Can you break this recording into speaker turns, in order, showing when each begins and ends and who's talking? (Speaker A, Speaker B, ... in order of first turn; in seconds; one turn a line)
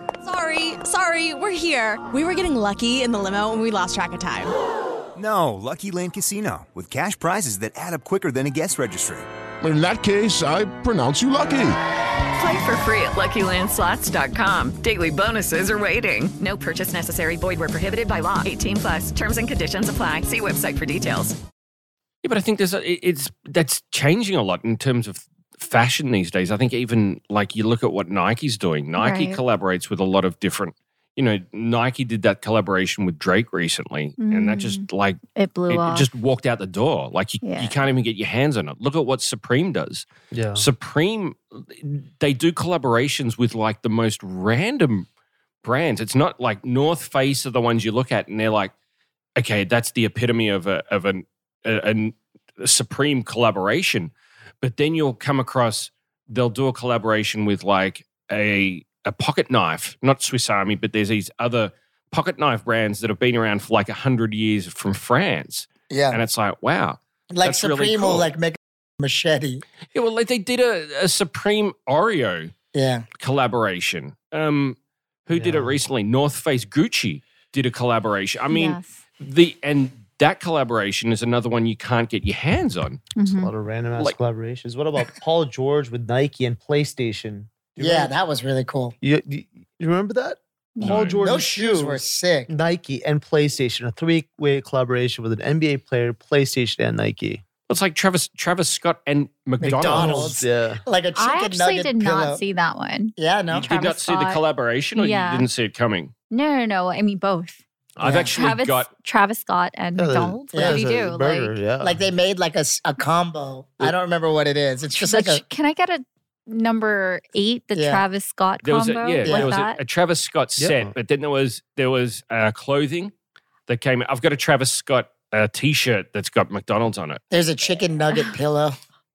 Speaker A: 0.2-4.5
Speaker B: 5.2-9.2
Speaker C: 9.6-11.8
Speaker D: 12.3-21.4
Speaker E: 22.2-40.0
Speaker F: 29.0-29.4
Speaker F: 34.2-34.8
Speaker F: 35.4-36.1
Speaker F: 37.4-37.8
Speaker G: 40.3-40.6
Speaker E: 40.5-45.0
Speaker E: 45.6-48.7
Speaker E: 49.4-68.3
Speaker H: 65.9-66.2
Speaker H: 67.3-69.6
Speaker E: 69.9-72.5
Speaker H: 72.7-73.0
Speaker E: 73.2-83.0
Speaker G: 75.3-75.8
Speaker F: 78.5-79.0
Speaker F: 83.2-83.5
Speaker G: 83.3-88.1
Speaker H: 87.8-88.9
Speaker G: 89.0-97.4
Speaker F: 90.8-91.1
Speaker E: 90.8-91.2
Speaker H: 91.2-92.5
Speaker E: 97.7-100.3
Speaker H: 99.6-102.4
Speaker G: 99.6-100.8
Speaker F: 101.2-104.4
Speaker H: 103.2-103.7
Speaker E: 103.5-106.1
Speaker F: 105.0-105.5
Speaker F: 106.3-107.6
Speaker E: 108.0-108.9
Speaker H: 108.0-108.3
Speaker F: 108.3-111.6
Speaker G: 110.0-112.0
Speaker H: 110.5-110.8
Speaker H: 111.8-115.4
Speaker F: 115.0-119.8
Speaker H: 117.7-118.0
Speaker E: 118.6-123.1
Speaker H: 119.2-119.5
Speaker G: 120.6-120.9
Speaker E: 123.7-127.2
Speaker H: 127.3-128.8